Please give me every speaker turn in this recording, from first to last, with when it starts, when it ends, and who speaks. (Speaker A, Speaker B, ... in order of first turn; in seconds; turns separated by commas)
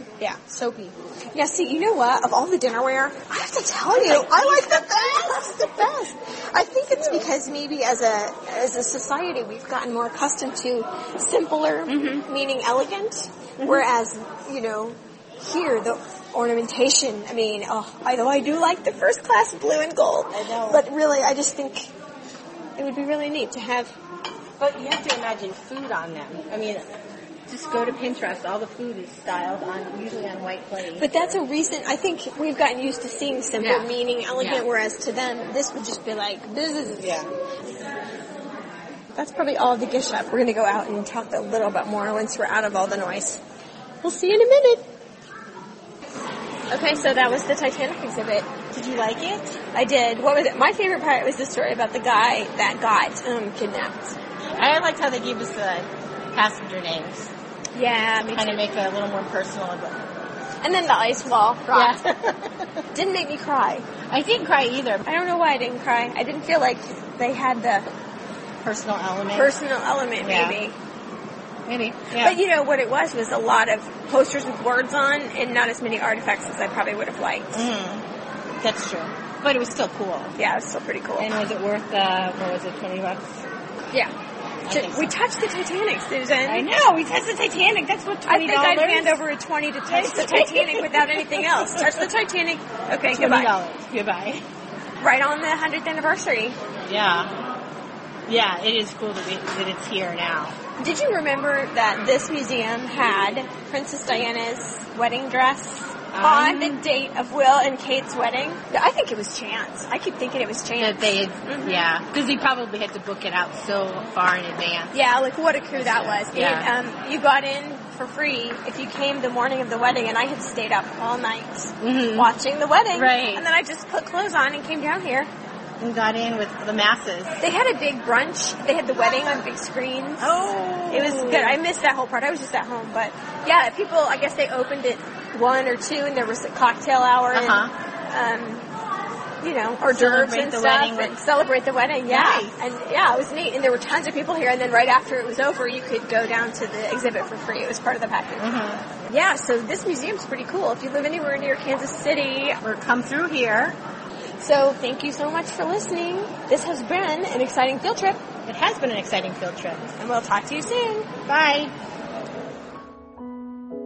Speaker A: 0.2-21.9, Speaker B: 3.9-5.2, Speaker B: 11.9-12.2, Speaker B: 20.3-20.9, Speaker A: 22.8-23.9, Speaker B: 24.6-26.9, Speaker B: 27.5-31.1, Speaker A: 31.0-37.2, Speaker B: 33.6-34.6, Speaker B: 37.0-37.3, Speaker A: 39.1-43.4, Speaker A: 44.0-44.9, Speaker A: 46.7-48.5, Speaker B: 48.7-49.6, Speaker A: 49.7-54.2, Speaker B: 54.6-57.3, Speaker A: 57.8-58.6, Speaker B: 58.2-60.1, Speaker A: 60.6-62.0, Speaker B: 61.7-62.8, Speaker A: 62.9-63.9, Speaker B: 64.1-65.0, Speaker A: 65.0-67.9, Speaker B: 68.6-69.6, Speaker A: 69.3-70.8, Speaker B: 70.2-70.6, Speaker B: 71.7-72.4, Speaker A: 72.2-77.6, Speaker B: 77.5-78.0, Speaker B: 78.6-80.4, Speaker A: 80.4-81.3, Speaker B: 81.2-83.4, Speaker B: 84.7-85.1, Speaker A: 84.7-86.7, Speaker B: 86.5-89.2, Speaker A: 88.3-93.5, Speaker B: 89.9-92.0, Speaker B: 93.1-94.5, Speaker A: 95.0-96.6, Speaker B: 96.9-97.3, Speaker B: 98.3-100.5, Speaker A: 100.8-111.8, Speaker B: 106.1-106.8, Speaker B: 110.8-115.0, Speaker A: 114.9-125.3, Speaker B: 115.8-116.7, Speaker B: 121.8-122.3, Speaker B: 122.9-123.5, Speaker B: 125.8-127.4, Speaker A: 127.4-138.7, Speaker B: 130.2-131.6, Speaker B: 137.3-137.7, Speaker A: 139.4-148.5, Speaker B: 139.9-141.1, Speaker B: 142.1-142.6, Speaker B: 148.4-148.9, Speaker A: 149.1-152.6, Speaker B: 152.6-153.8, Speaker A: 154.4-158.2, Speaker B: 158.4-159.9, Speaker A: 160.0-161.1, Speaker B: 161.2-161.7